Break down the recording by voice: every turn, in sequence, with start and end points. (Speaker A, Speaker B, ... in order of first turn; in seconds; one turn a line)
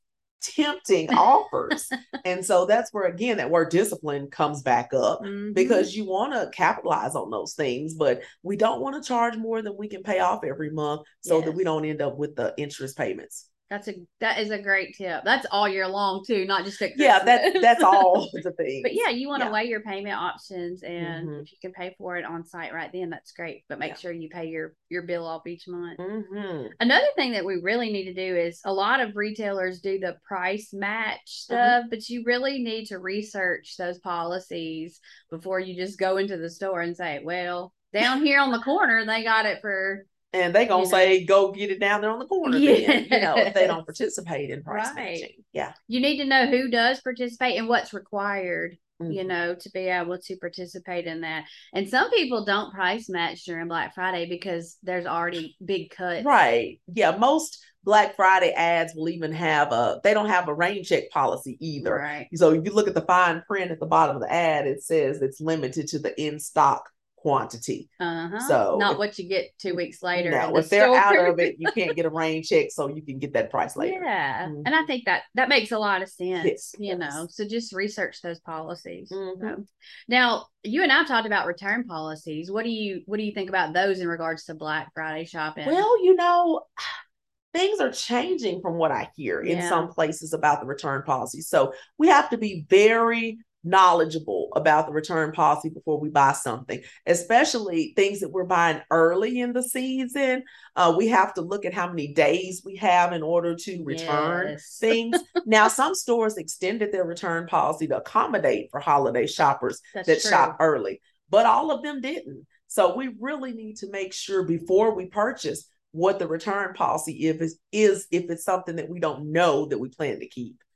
Speaker A: 0.4-13.5
Speaker B: 5.2-5.9
Speaker B: 11.2-11.6
Speaker B: 13.7-18.3
Speaker A: 16.9-19.6
Speaker B: 18.8-26.0
Speaker A: 21.0-21.4
Speaker A: 26.0-26.7
Speaker B: 26.8-40.1
Speaker A: 31.5-31.8
Speaker A: 40.3-45.7
Speaker B: 40.7-41.2
Speaker B: 42.4-43.8
Speaker B: 44.7-45.3
Speaker B: 45.9-56.3
Speaker A: 49.0-49.3
Speaker A: 56.2-67.9
Speaker B: 61.8-62.3
Speaker B: 68.0-71.8
Speaker A: 68.4-69.0
Speaker A: 70.1-74.7
Speaker B: 73.8-85.8
Speaker A: 76.4-77.2
Speaker A: 79.1-79.6
Speaker A: 85.6-86.8
Speaker A: 87.5-120.6
Speaker B: 89.4-89.9
Speaker B: 103.7-105.3
Speaker B: 109.9-110.5